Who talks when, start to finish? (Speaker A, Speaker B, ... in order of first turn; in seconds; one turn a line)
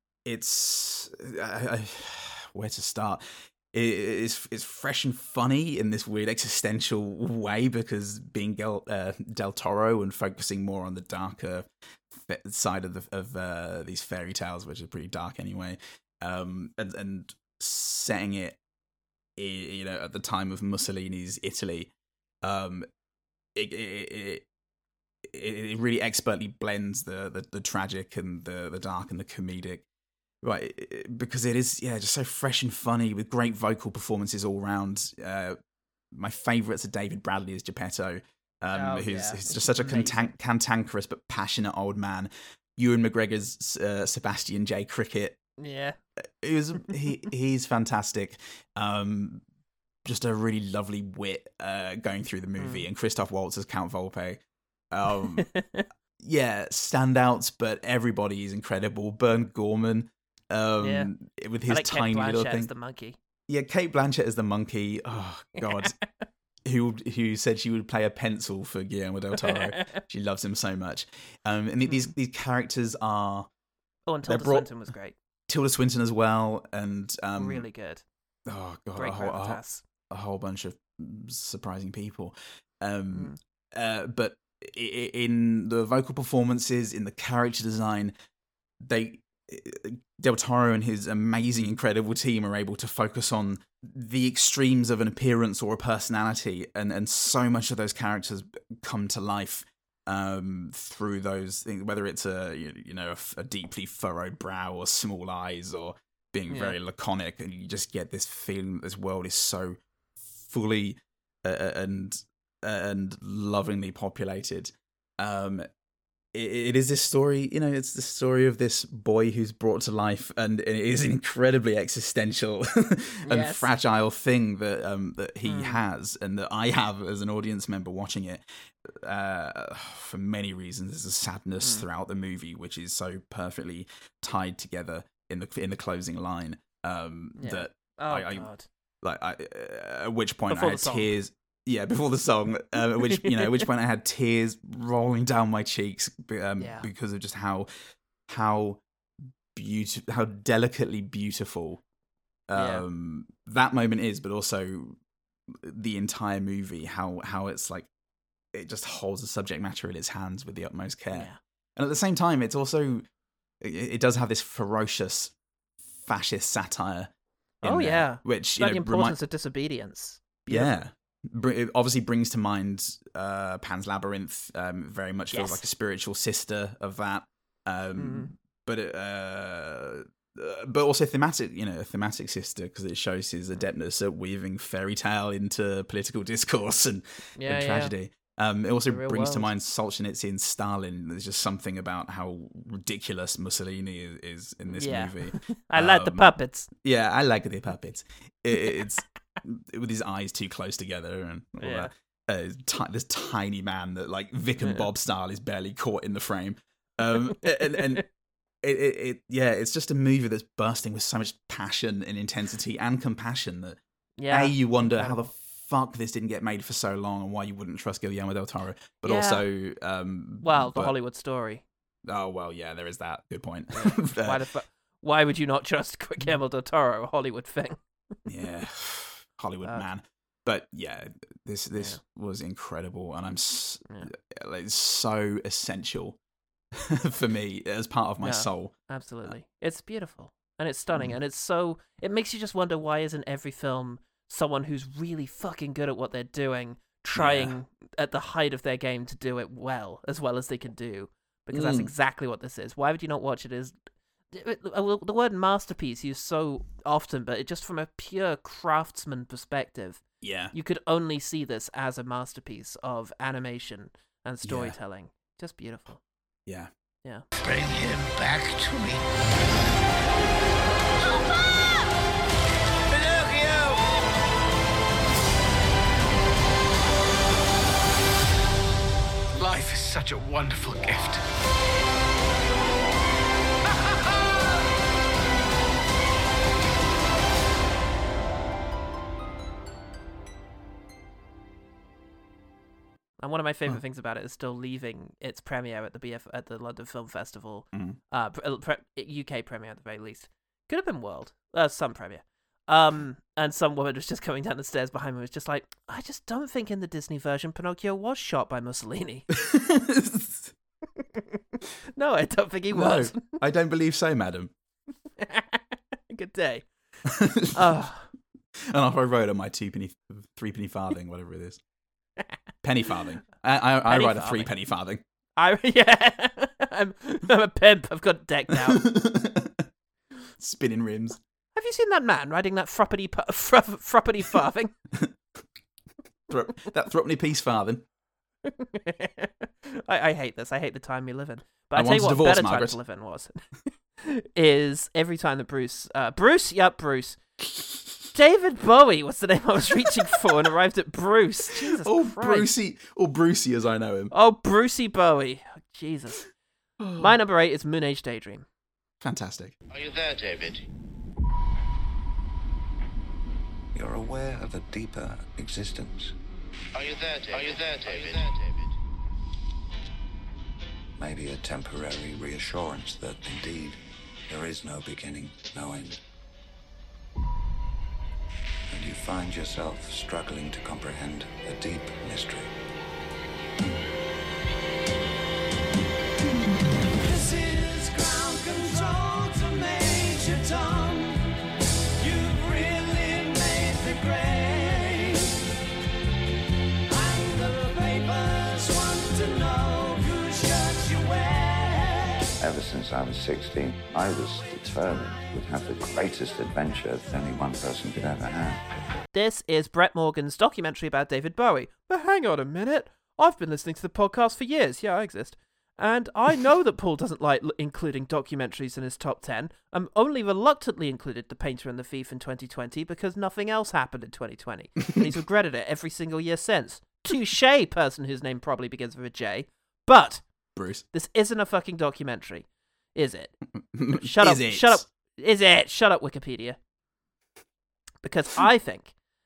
Speaker A: 0.2-18.6
Speaker A: 19.4-21.9
Speaker A: 22.4-22.9
Speaker A: 23.5-24.4
Speaker A: 25.2-29.9
Speaker A: 30.4-35.6
Speaker A: 36.1-45.4
Speaker B: 38.7-40.3
Speaker B: 45.6-46.0
Speaker A: 46.2-49.4
Speaker A: 50.0-54.4
Speaker B: 52.6-52.9
Speaker A: 54.9-55.5
Speaker B: 55.4-55.8
Speaker A: 56.2-62.7
Speaker B: 60.8-61.1
Speaker B: 61.7-63.2
Speaker A: 63.5-66.0
Speaker B: 65.6-65.9
Speaker A: 66.6-73.5
Speaker B: 69.4-70.0
Speaker B: 74.1-75.2
Speaker A: 74.2-74.7
Speaker A: 75.5-77.7
Speaker B: 77.4-78.0
Speaker A: 78.5-88.1
Speaker B: 79.0-79.8
Speaker B: 83.1-83.4
Speaker A: 88.8-109.8
Speaker B: 106.5-106.8
Speaker A: 110.4-115.7
Speaker A: 116.3-138.5
Speaker B: 123.2-123.7
Speaker B: 125.4-125.8
Speaker B: 131.6-131.8
Speaker B: 137.4-138.7
Speaker A: 139.0-147.7
Speaker B: 140.5-141.1
Speaker B: 143.0-143.6
Speaker B: 146.6-146.9
Speaker A: 148.3-148.8
Speaker A: 149.5-151.8
Speaker A: 152.5-155.0
Speaker B: 152.6-152.8
Speaker A: 155.5-157.9
Speaker A: 158.5-163.0
Speaker B: 161.1-161.4
Speaker A: 163.6-165.3
Speaker A: 166.0-169.2
Speaker B: 167.6-170.8
Speaker A: 170.5-208.0
Speaker B: 175.3-175.6
Speaker B: 178.0-178.3
Speaker B: 187.4-187.9
Speaker B: 188.9-189.5
Speaker B: 194.7-196.7
Speaker B: 201.6-201.9
Speaker A: 208.6-220.9
Speaker B: 214.2-215.2
Speaker B: 219.0-219.4
Speaker B: 220.4-221.6
Speaker A: 222.0-224.4
Speaker B: 223.7-227.8
Speaker A: 228.3-236.2
Speaker A: 236.7-238.7
Speaker B: 238.2-253.8
Speaker A: 247.1-247.6
Speaker A: 251.5-251.9
Speaker B: 254.3-266.0
Speaker A: 260.2-260.5
Speaker A: 264.4-264.8
Speaker A: 266.4-266.7
Speaker C: 267.4-269.0
Speaker C: 272.9-273.8
Speaker C: 279.4-281.1
Speaker B: 293.2-309.3
Speaker A: 297.7-298.0
Speaker A: 309.3-310.5
Speaker B: 311.9-313.4
Speaker A: 312.7-314.5
Speaker B: 315.2-316.7
Speaker A: 317.1-317.8
Speaker B: 317.5-318.1
Speaker A: 318.6-321.6
Speaker A: 322.6-325.0
Speaker B: 323.9-324.5
Speaker B: 325.4-328.8
Speaker A: 328.5-329.7
Speaker A: 330.4-331.2
Speaker B: 331.5-334.7
Speaker A: 336.3-337.8
Speaker B: 338.4-343.3
Speaker A: 341.7-342.8
Speaker B: 344.0-347.2
Speaker A: 347.5-348.1
Speaker B: 348.1-352.5
Speaker A: 351.5-354.1
Speaker B: 354.1-356.3
Speaker A: 356.8-357.1
Speaker B: 357.0-358.4
Speaker A: 359.0-359.5
Speaker D: 359.7-360.6
Speaker E: 363.7-366.1
Speaker D: 366.8-368.4
Speaker E: 371.0-376.0
Speaker E: 378.7-382.5
Speaker E: 402.4-408.6
Speaker B: 409.1-430.2
Speaker A: 430.5-430.8
Speaker B: 430.9-433.4
Speaker A: 433.6-434.8
Speaker B: 433.9-436.6
Speaker B: 438.0-438.9